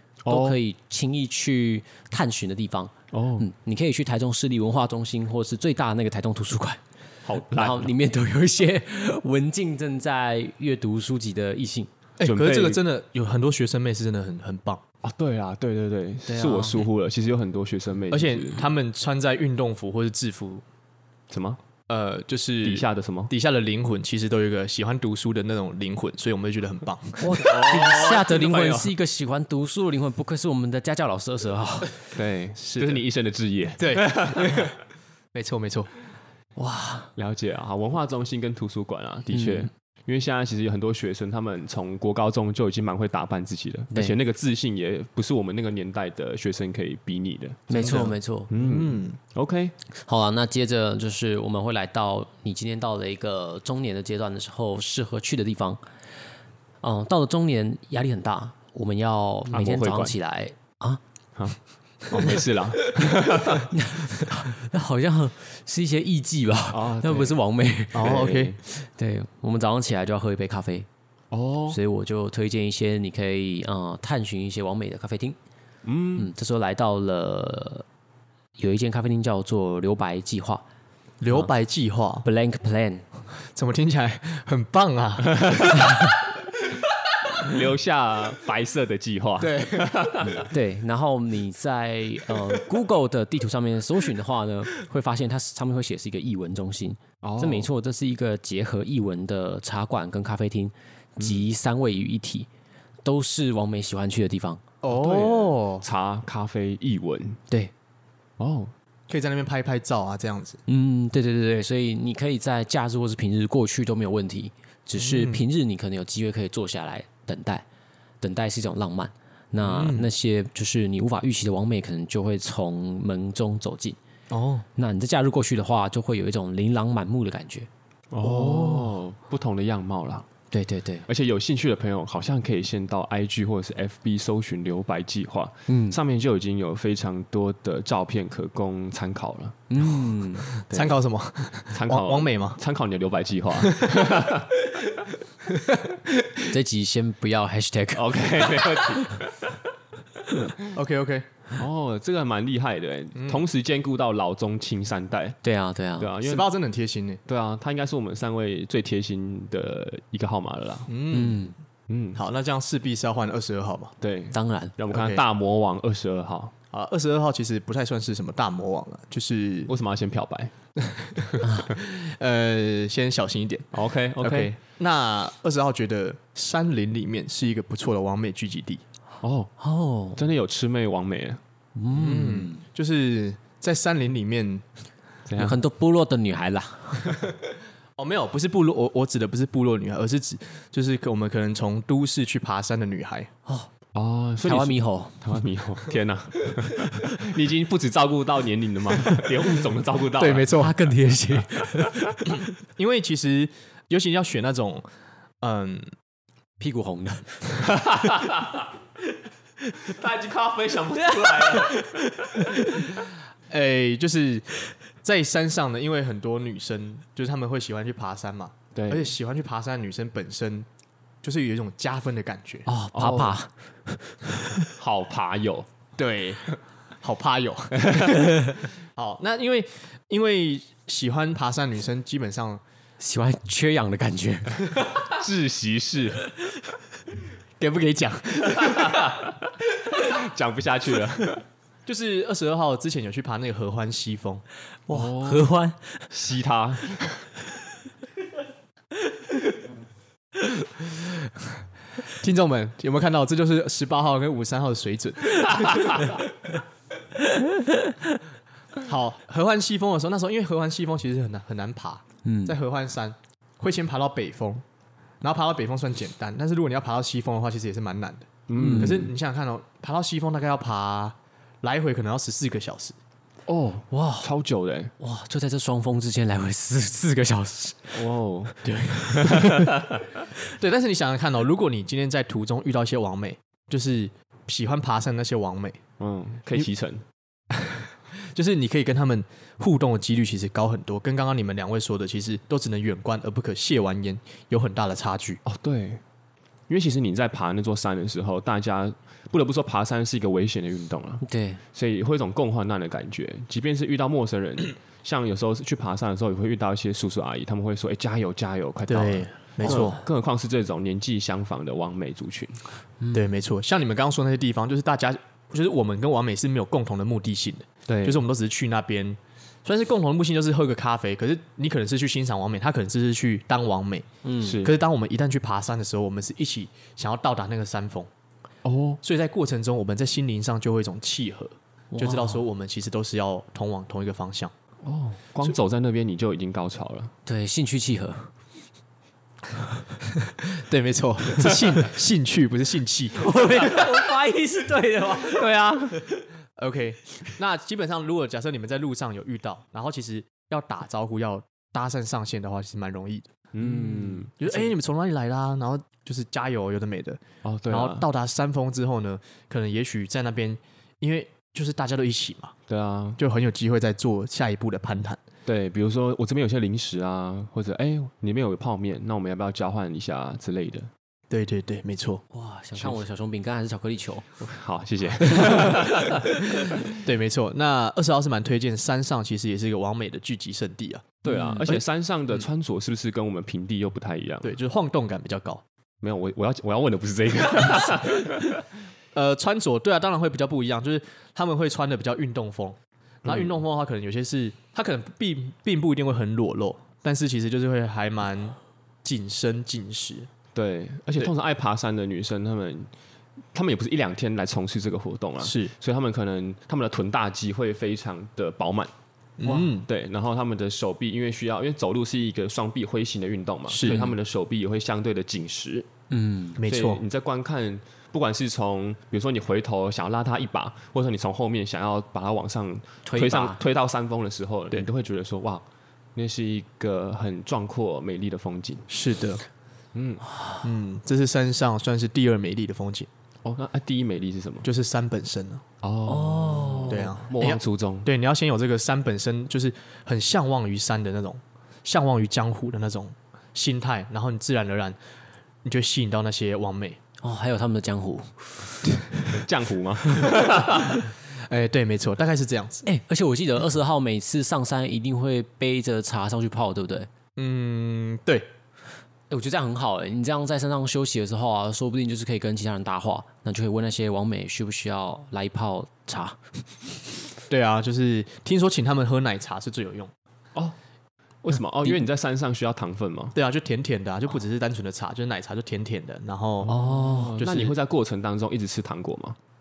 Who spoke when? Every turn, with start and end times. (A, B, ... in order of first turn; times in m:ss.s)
0:00.2-0:00.6 A
0:00.3-0:06.8 B
0:03.1-0:03.5 A
0:07.2-0:07.9 A
0:07.4-0:11.9 B
0:12.2-0:14.8 C
0:12.2-0:12.8 A
0:15.0-0:18.6 A
0:16.3-0:16.9 B
0:18.1-0:20.6 C
0:21.3-0:21.6 A
0:21.9-0:27.4 C
0:22.6-0:23.3 A
0:27.2-0:32.0 B
0:27.4-0:28.9 A
0:32.1-0:34.7 A
0:32.6-0:33.0 C
0:33.8-0:34.8 C
0:35.3-0:35.9 C
0:36.6-0:37.1 B
0:37.2-0:47.9 A
0:39.3-0:39.7 B
0:47.7-0:48.5 B
0:47.7-0:49.2 C
0:48.5-0:49.7 A
0:50.0-0:55.8 B
0:56.8-1:01.0 B
0:59.5-1:00.1 A
1:01.4-1:03.7 A
1:02.1-1:02.4 C
1:03.7-1:10.9 B
1:06.7-1:07.4 A
1:07.9-1:08.6 C
1:08.0-1:08.6 A
1:11.3-1:11.8 A
1:11.7-1:15.4 B
1:15.8-1:16.3 A
1:16.2-1:17.8 B
1:18.6-1:20.6 B
1:21.2-1:22.3 C
1:22.2-1:23.1 B
1:23.3-1:25.9 C
1:25.3-1:25.8 A
1:27.4-1:30.5 A
1:29.4-1:30.3 C
1:30.4-1:42.5 B
1:37.2-1:37.7 A
1:41.2-1:41.4 A
1:43.0-1:44.6 B
1:44.8-1:45.8 C
1:44.9-1:47.4 A
1:48.4-1:48.7 A
1:49.1-1:50.6 C
1:50.7-1:57.6 B
1:55.0-1:55.4 C
1:58.2-2:04.0 B
1:59.6-2:00.1 C
2:04.3-2:04.6 C
2:04.8-2:07.7 B
2:08.1-2:10.3 A
2:08.2-2:09.0 C
2:10.5-2:11.0 B
2:11.0-2:19.6 A
2:15.7-2:16.0 B
2:19.7-2:20.5 B
2:20.7-2:20.9 A
2:20.7-2:22.6 C
2:21.6-2:24.5 A
2:23.6-2:24.1 C
2:25.4-2:26.4 C
2:26.5-2:29.0 B
2:27.9-2:29.5 A
2:30.6-2:31.3 C
2:31.6-2:35.4 A
2:33.1-2:33.4 C
2:35.4-2:36.1 B
2:36.0-2:36.5 A
2:36.2-2:37.2 C
2:37.2-2:40.9 A
2:40.9-2:41.5 C
2:41.1-2:41.5 B
2:41.9-2:42.2 A
2:42.2-2:43.9 C
2:44.0-2:46.5 A
2:44.3-2:44.7 B
2:44.9-2:45.2 C
2:46.7-2:49.7 C
2:49.7-2:50.5 A
2:50.8-2:58.8 C
2:53.7-2:54.5 A
2:59.2-2:59.5 A
2:59.6-3:00.2 B
3:00.2-3:01.4 A
3:01.8-3:02.6 B
3:01.9-3:04.6 C
3:05.3-3:05.6 A
3:05.4-3:07.3 B
3:07.0-3:07.3 C
3:08.0-3:13.3 C
3:13.9-3:20.5 A
3:14.4-3:15.2 B
3:20.2-3:20.8 C
3:20.5-3:22.3 B
3:22.7-3:24.8 C
3:25.4-3:25.9 C
3:26.6-3:27.5 B
3:27.6-3:28.7 A
3:29.8-3:32.3 A
3:31.2-3:31.8 B
3:33.5-3:34.4 C
3:35.0-3:40.7 C
3:38.7-3:39.1 A
3:41.2-3:42.7 C
3:42.7-3:44.6 B
3:42.9-3:43.4 A
3:44.8-3:45.7 A
3:46.0-3:52.6 C
3:47.7-3:48.1 A
3:53.0-3:54.8 B
3:55.1-3:56.3 A
3:57.6-3:59.1 C
3:58.5-4:01.4 A
4:01.8-4:04.4 C
4:04.9-4:06.1 B
4:04.9-4:05.5 A
4:06.1-4:07.2 A
4:12.1-4:16.1 C
4:15.5-4:16.0 A
4:17.3-4:17.9 B
4:18.8-4:24.6 C
4:22.2-4:22.6 B
4:25.2-4:33.0 C
4:28.5-4:29.1 A
4:28.6-4:29.0 B
4:33.5-4:34.9 A
4:33.9-4:34.3 B
4:35.0-4:39.8 B
4:37.9-4:40.0 A
4:38.6-4:39.0 C
4:40.6-4:45.8 C
4:46.0-4:47.0 A
4:47.5-4:55.4 C
4:55.4-4:56.0 A
4:56.7-5:12.6 A
5:01.2-5:01.6 B
5:08.9-5:10.0 C
5:09.6-5:09.9 B
5:13.0-5:13.2 B
5:13.1-5:24.1 C
5:17.9-5:18.2 A
5:24.2-5:24.6 B
5:24.4-5:24.7 A
5:24.6-5:28.1 C
5:28.6-5:29.0 A
5:29.0-5:34.5 C
5:31.9-5:32.4 B
5:34.8-5:37.1 A
5:37.2-5:38.3 B
5:40.2-5:43.8 C
5:43.2-5:45.5 B
5:45.2-5:46.0 A
5:46.6-5:53.3 C
5:53.5-5:54.3 A
5:53.6-5:54.3 B
5:54.4-6:02.5 C
5:57.4-5:58.0 A
6:02.7-6:03.2 A
6:03.2-6:05.2 C
6:05.4-6:10.9 A
6:11.3-6:12.2 C
6:12.3-6:14.3 B
6:14.4-6:17.0 A
6:17.0-6:21.8 C
6:21.2-6:24.6 A
6:21.3-6:21.6 B
6:24.4-6:25.6 C
6:26.0-6:28.6 A
6:29.1-6:40.3 C
6:33.2-6:33.5 A
6:40.5-6:42.9 A
6:43.5-6:48.9 A
6:45.4-6:45.7 C
6:49.4-6:49.9 C
6:49.4-6:55.9 A
6:53.7-6:54.1 C
6:56.1-6:56.6 B
6:56.6-6:57.0 C
6:56.6-7:05.6 A
7:03.0-7:03.6 B
7:06.1-7:08.9 A
7:08.9-7:09.4 C
7:09.9-7:10.2 A
7:10.6-7:13.1 C
7:13.4-7:14.7 A
7:14.6-7:15.6 C
7:15.8-7:18.1 A
7:16.1-7:17.1 B
7:16.9-7:25.0 C
7:25.6-7:27.0 C
7:27.2-7:28.9 B
7:29.3-7:31.0 A
7:31.3-7:32.9 C
7:32.8-7:37.1 B
7:37.4-7:38.5 C
7:39.3-7:46.4 B
7:47.5-7:50.1 C
7:51.4-7:53.4 A
7:53.3-7:56.7 C
7:56.7-7:59.4 A
7:56.7-7:57.4 B
7:57.4-7:57.7 C